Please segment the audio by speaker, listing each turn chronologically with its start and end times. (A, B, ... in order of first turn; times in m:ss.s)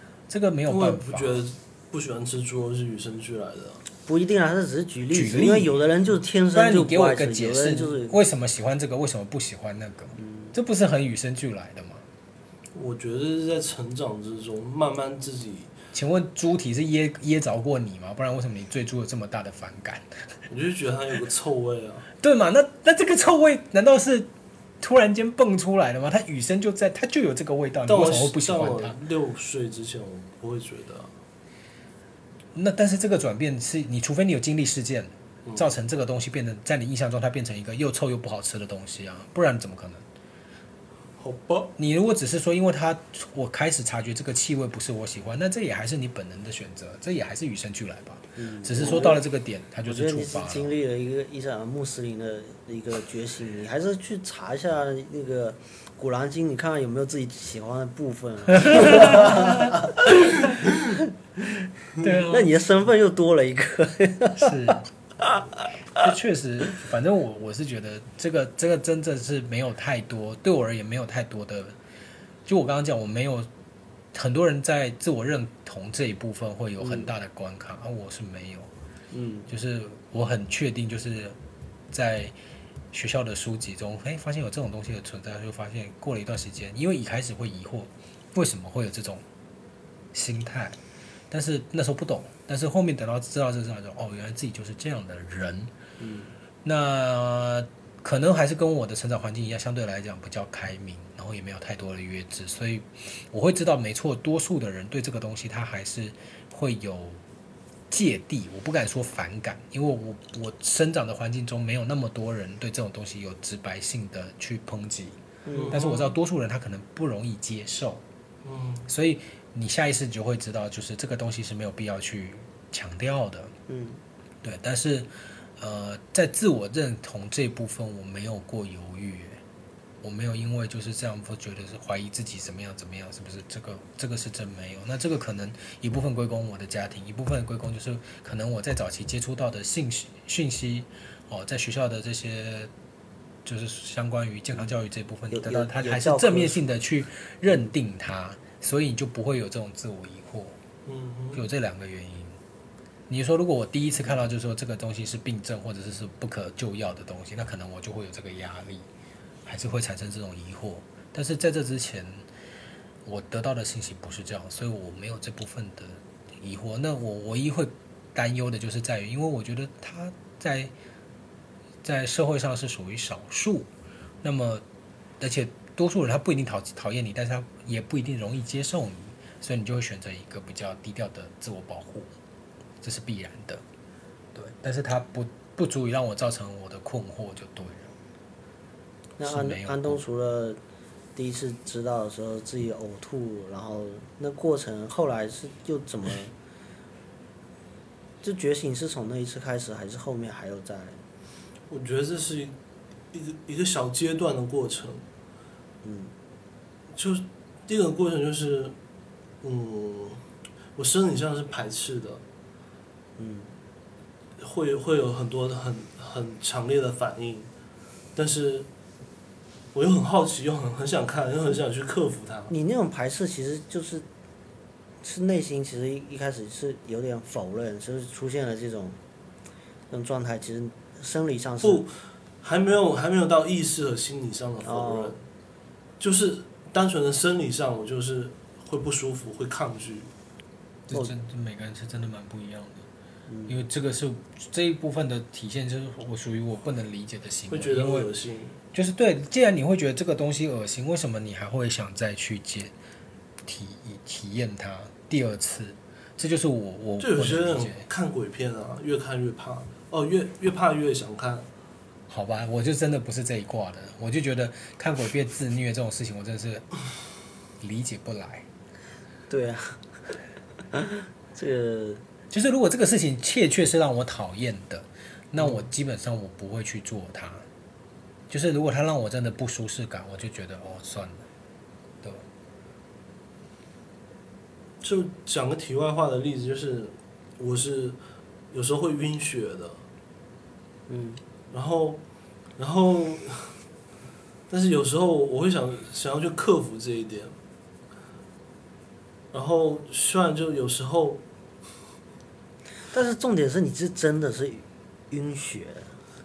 0:00.3-0:01.4 A
0:00.7-0:03.8 B
0:04.0-0:08.2 C
0:05.1-0:05.8 A
0:06.5-0:12.0 A
0:10.2-0:10.5 C
0:12.7-0:15.7 B
0:15.9-0:20.1 A
0:20.5-0:22.1 B
0:22.2-0:24.3 A
0:24.8-0:29.0 A
0:27.9-0:31.1 B
0:32.5-0:40.0 A
0:41.2-0:41.7 B
0:41.8-0:50.7 A
0:48.4-0:49.2 C
0:49.8-1:00.2 C
0:58.6-0:59.8 A
1:02.0-1:02.5 A
1:02.0-1:06.0 C
1:04.4-1:04.9 A
1:06.0-1:11.8 A
1:12.5-1:13.5 A
1:14.1-1:18.7 A
1:16.8-1:17.1 C
1:19.1-1:19.5 C
1:19.5-1:21.4 A
1:21.9-1:22.4 A
1:22.9-1:29.2 A
1:30.1-1:30.8 A
1:31.3-1:35.7 A
1:36.0-1:36.3 C
1:36.6-1:47.2 A
1:47.9-1:55.2 A
1:55.5-1:55.8 C
1:55.5-1:56.1 B
1:55.7-1:58.0 A
1:58.4-1:58.9 B
1:58.9-2:03.5 A
2:03.7-2:04.0 C
2:04.4-2:09.4 A
2:10.0-2:22.7 A
2:23.4-2:30.6 A
2:25.3-2:26.8 C
2:30.9-2:31.4 B
2:31.3-2:32.4 A
2:33.1-2:38.9 A
2:39.4-2:42.2 A
2:43.1-2:50.7 A
2:51.8-2:53.7 A
2:54.2-2:54.6 A
2:55.2-3:02.1 A
3:02.8-3:03.6 A
3:04.4-3:07.9 A
3:09.2-3:10.6 C
3:09.2-3:10.0 A
3:11.2-3:16.3 C
3:18.2-3:21.0 C
3:21.7-3:22.5 B
3:23.1-3:25.0 B
3:25.8-3:26.1 C
3:26.9-3:28.8 B
3:29.4-3:30.2 B
3:30.8-3:32.2 B
3:33.2-3:33.5 C
3:34.4-3:37.5 B
3:38.2-3:38.7 B
3:39.7-3:42.5 B
3:42.5-3:44.1 C
3:45.0-3:49.0 C
3:49.9-3:51.8 C
3:51.6-3:55.2 B
3:54.6-3:55.2 C
3:56.0-4:00.1 B
4:00.9-4:02.8 A
4:03.3-4:03.6 C
4:03.5-4:08.1 A
4:07.5-4:08.6 B
4:08.7-4:12.7 A
4:13.5-4:17.8 A
4:17.0-4:21.5 B
4:22.1-4:26.7 A
4:27.6-4:28.5 A
4:29.3-4:29.8 C
4:30.7-4:32.0 C
4:32.3-4:37.4 A
4:38.3-4:41.3 A
4:44.8-4:48.0 B
4:48.5-4:49.8 B
4:50.9-4:51.2 C
4:51.5-4:52.0 B
4:52.6-4:53.6 B
4:54.5-4:57.3 B
4:59.3-5:01.2 B
5:02.9-5:05.9 C